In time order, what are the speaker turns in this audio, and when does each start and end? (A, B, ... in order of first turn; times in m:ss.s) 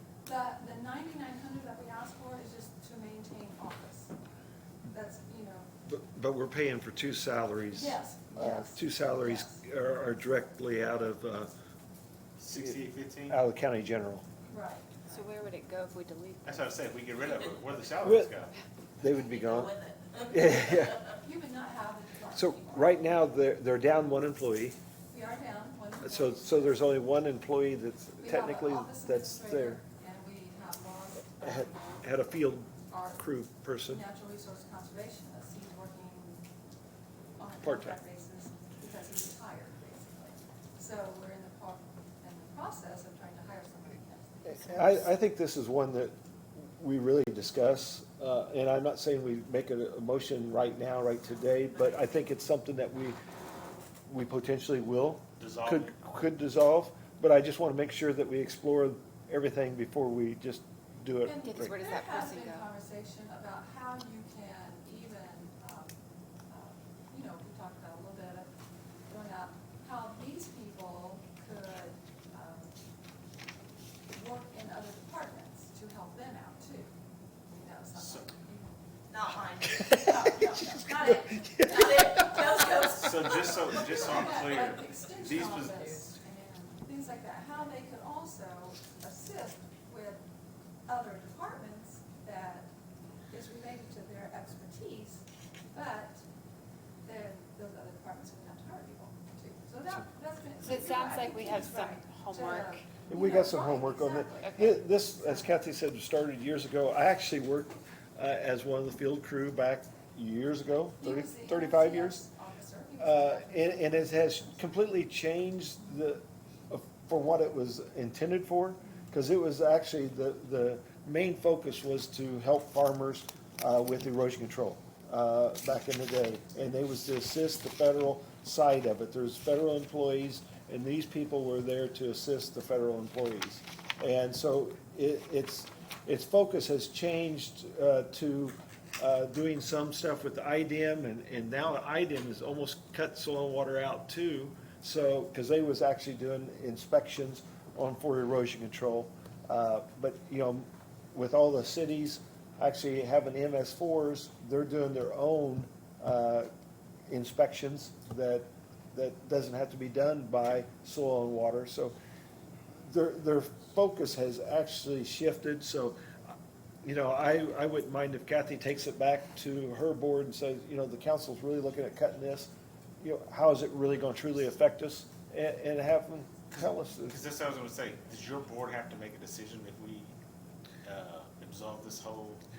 0:00.2-0:04.1 A
0:04.9-0:05.7 A
0:05.9-0:11.5 B
0:07.7-0:09.6 A
0:12.4-0:13.4 C
0:12.5-0:14.2 B
0:14.5-0:15.1 A
0:15.1-0:16.6 D
0:16.4-0:18.6 C
0:17.2-0:17.6 E
0:18.0-0:18.3 B
0:19.0-0:19.8 B
0:19.0-0:21.2 E
0:20.3-0:21.0 B
0:21.2-0:23.1 A
0:22.4-0:24.8 B
0:25.1-0:27.0 A
0:26.0-0:29.8 B
0:28.2-0:32.0 A
0:31.4-0:34.0 B
0:32.9-0:33.2 A
0:33.9-0:36.4 A
0:37.4-0:45.0 A
0:37.6-0:38.0 B
0:44.4-0:53.2 B
0:54.1-1:01.9 B
0:55.4-0:56.1 C
1:01.2-1:06.0 A
1:01.4-1:02.7 D
1:06.5-1:08.5 A
1:09.1-1:12.8 A
1:14.1-1:16.9 A
1:17.5-1:18.8 A
1:17.9-1:18.3 C
1:19.1-1:24.1 E
1:19.6-1:22.4 B
1:20.1-1:21.9 A
1:23.0-1:26.1 C
1:23.9-1:30.2 A
1:30.9-1:32.7 A
1:33.3-1:36.2 A
1:37.0-1:44.6 A
1:40.6-1:42.9 D
1:43.1-1:52.2 B
1:43.6-1:45.2 D
1:45.2-1:45.5 A
1:51.0-1:54.5 A
1:53.0-2:36.5 B
2:37.1-2:42.0 B
2:42.8-2:46.0 B
2:46.8-2:52.5 B
2:53.0-2:57.2 B
2:56.5-3:00.2 C
3:00.8-3:02.4 C